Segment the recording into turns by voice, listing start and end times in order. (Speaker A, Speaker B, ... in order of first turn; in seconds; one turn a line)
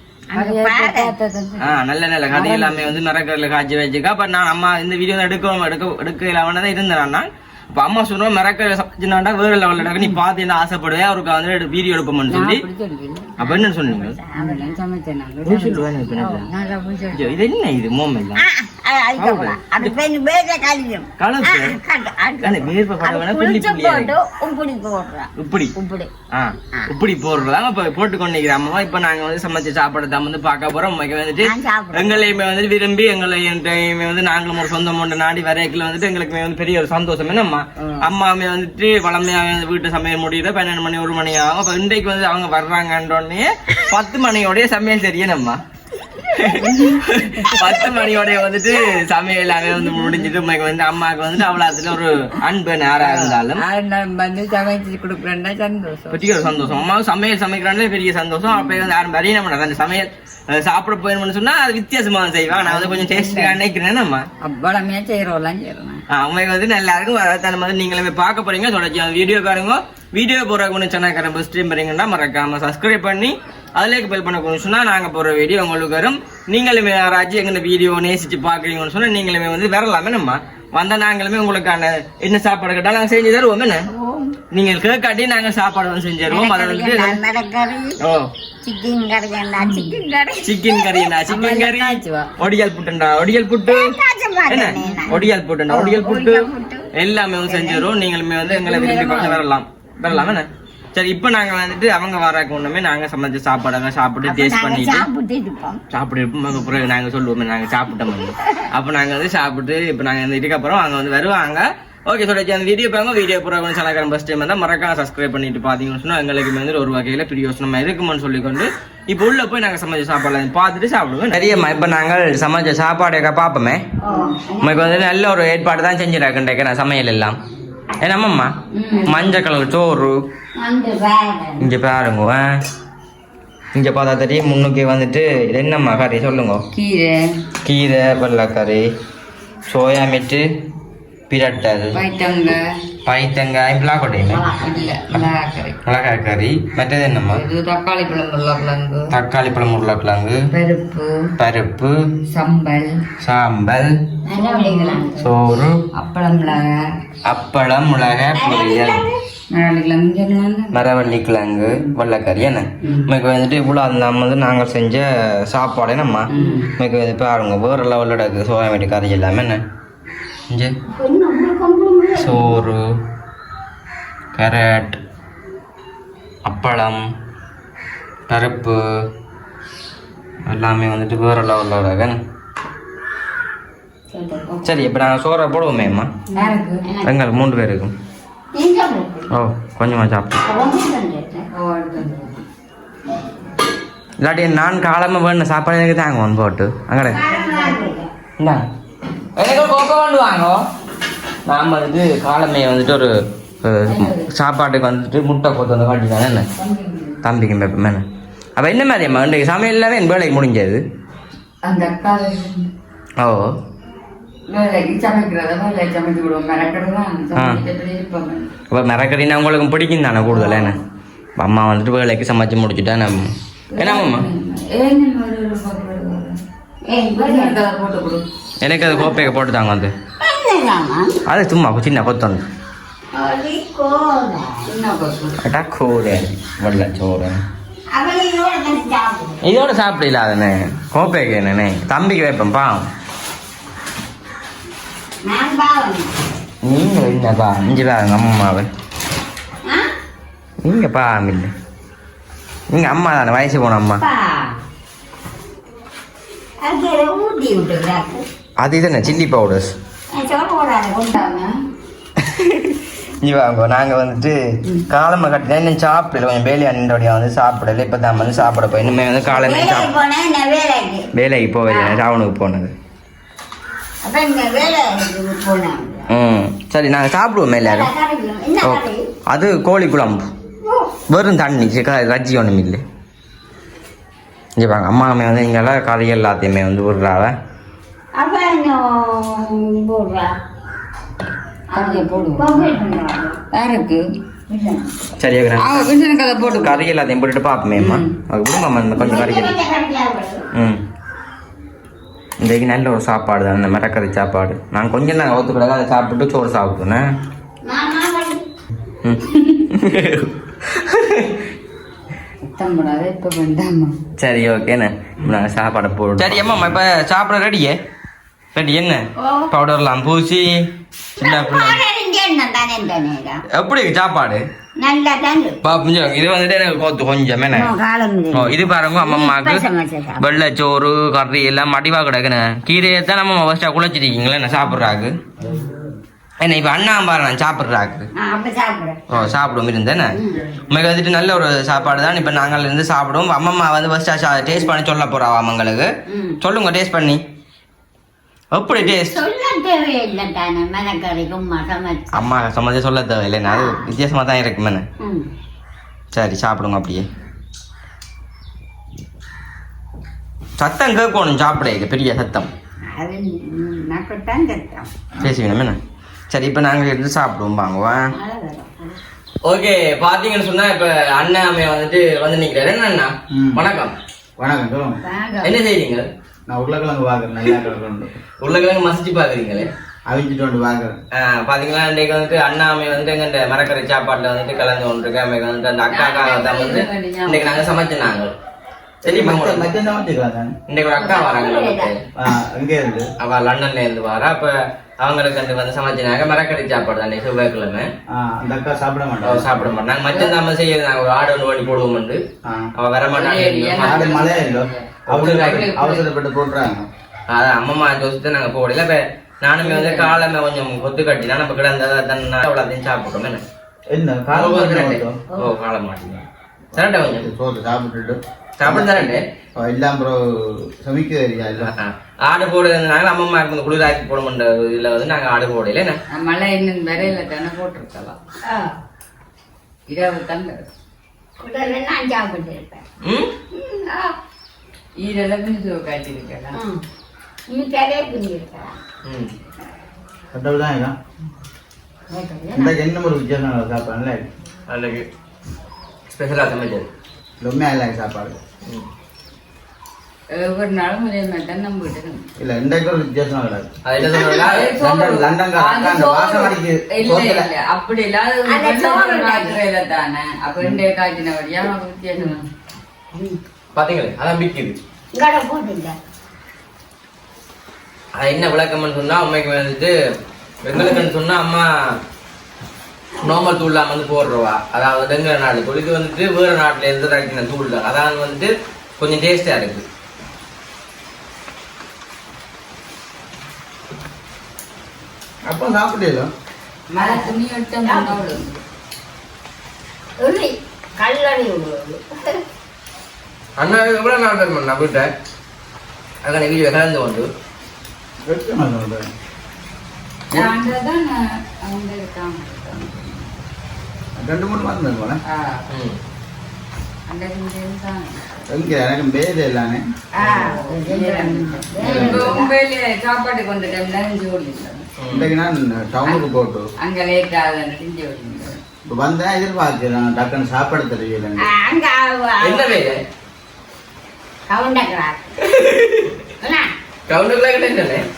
Speaker A: 0.3-1.1
Speaker B: 0.3-1.8
Speaker C: 1.6-12.6
Speaker B: 2.3-3.0
Speaker B: 12.4-13.3
Speaker C: 13.4-14.2
Speaker A: 13.4-14.8
Speaker B: 14.3-16.0
Speaker C: 15.4-16.5
Speaker A: 16.1-17.4
Speaker C: 17.1-18.4
Speaker A: 18.4-26.1
Speaker C: 19.2-20.0
Speaker C: 21.2-21.8
Speaker C: 22.4-24.1
Speaker C: 25.4-25.7
Speaker C: 26.3-45.6
Speaker A: 31.4-32.3
Speaker A: 37.8-38.1
Speaker C: 46.2-53.6
Speaker B: 53.0-56.4
Speaker C: 56.1-64.3
Speaker B: 62.6-63.5
Speaker B: 64.4-66.0
Speaker C: 66.1-83.9
Speaker A: 83.9-84.3
Speaker C: 84.5-87.2
Speaker A: 86.3-88.0
Speaker C: 88.0-88.3
Speaker A: 88.6-92.2
Speaker C: 90.4-93.9
Speaker A: 93.7-96.9
Speaker C: 94.5-105.0
Speaker A: 97.5-97.9
Speaker A: 98.5-99.4
Speaker A: 104.2-105.8
Speaker C: 105.9-123.8
Speaker A: 124.0-125.0
Speaker B: 124.1-124.3
Speaker C: 124.6-127.4
Speaker C: 128.0-128.5
Speaker A: 128.8-129.3
Speaker B: 128.8-129.4
Speaker C: 129.1-130.2
Speaker A: 130.6-131.7
Speaker C: 131.6-132.4
Speaker C: 133.7-136.6
Speaker B: 136.7-137.2
Speaker C: 137.6-138.8
Speaker C: 139.7-140.4
Speaker C: 141.3-142.0
Speaker B: 141.9-142.6
Speaker C: 143.0-144.4
Speaker A: 144.2-145.0
Speaker B: 144.6-145.8
Speaker C: 145.8-147.4
Speaker B: 147.3-149.2
Speaker C: 149.1-150.4
Speaker B: 150.5-151.2
Speaker C: 151.4-151.9
Speaker B: 152.3-153.1
Speaker C: 153.2-153.9
Speaker A: 154.2-155.3
Speaker B: 154.3-155.0
Speaker C: 155.2-155.8
Speaker B: 155.9-156.7
Speaker C: 157.2-159.0
Speaker A: 158.3-159.2
Speaker B: 159.5-160.8
Speaker C: 160.7-169.6
Speaker A: 162.8-163.1
Speaker B: 166.3-166.7
Speaker A: 166.3-166.6
Speaker C: 170.5-170.7
Speaker A: 170.9-172.7
Speaker C: 172.1-172.8
Speaker C: 174.3-175.0
Speaker C: 176.4-177.0
Speaker C: 178.3-178.8
Speaker C: 180.5-182.2
Speaker A: 184.1-184.8
Speaker C: 184.6-186.1
Speaker A: 186.3-187.1
Speaker B: 186.3-186.9
Speaker C: 187.0-187.9
Speaker A: 188.5-189.3
Speaker C: 189.3-190.4
Speaker A: 190.4-191.5
Speaker B: 191.5-192.3
Speaker C: 194.2-197.2
Speaker A: 197.1-198.1
Speaker B: 197.4-197.8
Speaker C: 199.3-200.6
Speaker C: 201.4-203.1
Speaker C: 203.6-206.5
Speaker B: 203.8-204.3
Speaker B: 206.5-207.2
Speaker C: 207.2-208.0
Speaker C: 208.6-210.8
Speaker B: 211.6-212.6
Speaker B: 214.5-218.5
Speaker C: 217.3-217.6
Speaker C: 218.7-220.8
Speaker B: 220.5-220.8
Speaker C: 221.4-224.2
Speaker B: 223.7-226.3
Speaker A: 226.8-227.6
Speaker B: 227.1-228.2
Speaker C: 228.6-229.9
Speaker A: 228.8-229.2
Speaker A: 230.2-231.2
Speaker C: 231.2-232.4
Speaker A: 233.1-234.7
Speaker B: 234.7-235.4
Speaker C: 235.4-237.4
Speaker A: 237.9-239.4
Speaker C: 239.4-242.9
Speaker A: 245.2-246.1
Speaker C: 246.6-248.7
Speaker C: 250.6-251.5
Speaker C: 252.7-254.0
Speaker A: 254.0-254.6
Speaker A: 256.6-258.2
Speaker C: 258.6-259.7
Speaker A: 260.1-261.3
Speaker B: 261.1-261.4
Speaker C: 262.2-269.9
Speaker A: 269.2-271.1
Speaker C: 271.1-272.7
Speaker A: 274.0-276.1
Speaker C: 276.1-277.9
Speaker A: 277.6-279.1
Speaker C: 278.6-280.3
Speaker C: 281.1-282.8
Speaker C: 284.6-287.3
Speaker A: 288.1-290.3
Speaker A: 291.7-293.4
Speaker B: 291.7-292.8
Speaker B: 293.5-294.0
Speaker A: 294.5-295.0
Speaker C: 295.2-295.9
Speaker B: 295.6-296.9
Speaker C: 296.5-299.5
Speaker A: 298.9-300.4
Speaker C: 300.5-300.8
Speaker C: 302.4-307.1
Speaker A: 307.6-308.4
Speaker C: 309.0-311.3
Speaker B: 312.4-313.9
Speaker C: 314.2-317.7
Speaker C: 318.5-320.5
Speaker A: 319.2-319.5
Speaker C: 321.2-321.8
Speaker A: 321.2-323.4
Speaker C: 323.5-324.4
Speaker A: 324.8-325.6
Speaker C: 325.6-327.7
Speaker A: 327.5-330.2
Speaker C: 328.3-335.2
Speaker A: 335.5-335.8
Speaker C: 336.4-338.1
Speaker A: 338.1-339.0
Speaker C: 339.1-340.2
Speaker A: 340.1-340.5
Speaker C: 340.7-345.9
Speaker A: 346.1-346.4
Speaker C: 346.4-347.2
Speaker C: 348.5-349.2
Speaker A: 348.8-352.3
Speaker C: 352.1-354.8
Speaker A: 353.4-353.9
Speaker A: 355.0-355.3
Speaker C: 356.1-357.1
Speaker C: 360.6-362.5
Speaker A: 362.9-364.9
Speaker C: 365.2-365.8
Speaker C: 366.3-368.1
Speaker A: 368.1-369.0
Speaker C: 369.4-373.9
Speaker D: 373.3-373.6
Speaker D: 374.4-375.0
Speaker A: 375.0-375.6
Speaker C: 375.4-376.1
Speaker D: 376.5-378.1
Speaker C: 378.4-379.7
Speaker D: 380.1-380.9
Speaker C: 381.1-388.3
Speaker B: 385.9-387.7
Speaker C: 389.0-389.7
Speaker D: 389.0-390.5
Speaker C: 390.7-392.0
Speaker A: 390.9-391.9
Speaker D: 392.2-393.1
Speaker C: 393.2-397.9
Speaker D: 398.1-399.7
Speaker C: 399.2-402.2
Speaker C: 402.8-404.5
Speaker B: 403.1-404.9
Speaker D: 403.8-406.9
Speaker C: 405.1-405.7
Speaker B: 405.6-406.1
Speaker C: 407.3-413.4
Speaker B: 409.6-410.1
Speaker D: 413.9-415.2
Speaker C: 414.3-417.3
Speaker D: 416.8-421.7
Speaker C: 418.6-419.2
Speaker C: 421.6-426.0
Speaker B: 426.1-428.1
Speaker A: 428.4-428.8
Speaker B: 429.9-430.7
Speaker A: 431.4-432.8
Speaker C: 433.0-433.3
Speaker A: 433.5-434.1
Speaker B: 435.0-436.6
Speaker A: 436.5-436.8
Speaker A: 437.5-438.8
Speaker C: 439.0-439.3
Speaker D: 440.3-440.9
Speaker A: 442.1-442.8
Speaker D: 442.5-444.3
Speaker C: 444.7-445.1
Speaker C: 446.1-446.9
Speaker D: 447.4-448.4
Speaker B: 450.3-452.2
Speaker D: 452.4-457.5
Speaker C: 453.8-454.7
Speaker A: 454.1-454.5
Speaker B: 454.3-462.4
Speaker A: 458.4-459.6
Speaker A: 463.1-463.4
Speaker C: 463.7-464.8
Speaker A: 465.1-465.9
Speaker C: 468.1-469.9
Speaker C: 470.6-471.7
Speaker A: 470.7-471.1
Speaker C: 473.2-479.8
Speaker D: 485.4-486.3
Speaker B: 486.9-488.6
Speaker A: 487.0-488.4
Speaker A: 490.2-492.4
Speaker C: 493.6-495.1
Speaker C: 496.2-497.3
Speaker D: 498.2-499.1
Speaker B: 500.3-503.4
Speaker D: 504.1-505.2
Speaker B: 505.3-505.6
Speaker C: 505.7-506.0
Speaker B: 507.1-508.5
Speaker D: 508.5-509.8
Speaker A: 510.1-512.5
Speaker B: 510.4-514.9
Speaker D: 511.8-512.4
Speaker C: 515.0-515.3
Speaker D: 515.1-516.7
Speaker B: 516.8-518.6
Speaker D: 518.9-521.5
Speaker A: 521.4-522.8
Speaker C: 522.4-523.0
Speaker A: 524.5-525.3
Speaker C: 525.4-526.2
Speaker A: 526.4-526.7
Speaker C: 527.1-528.0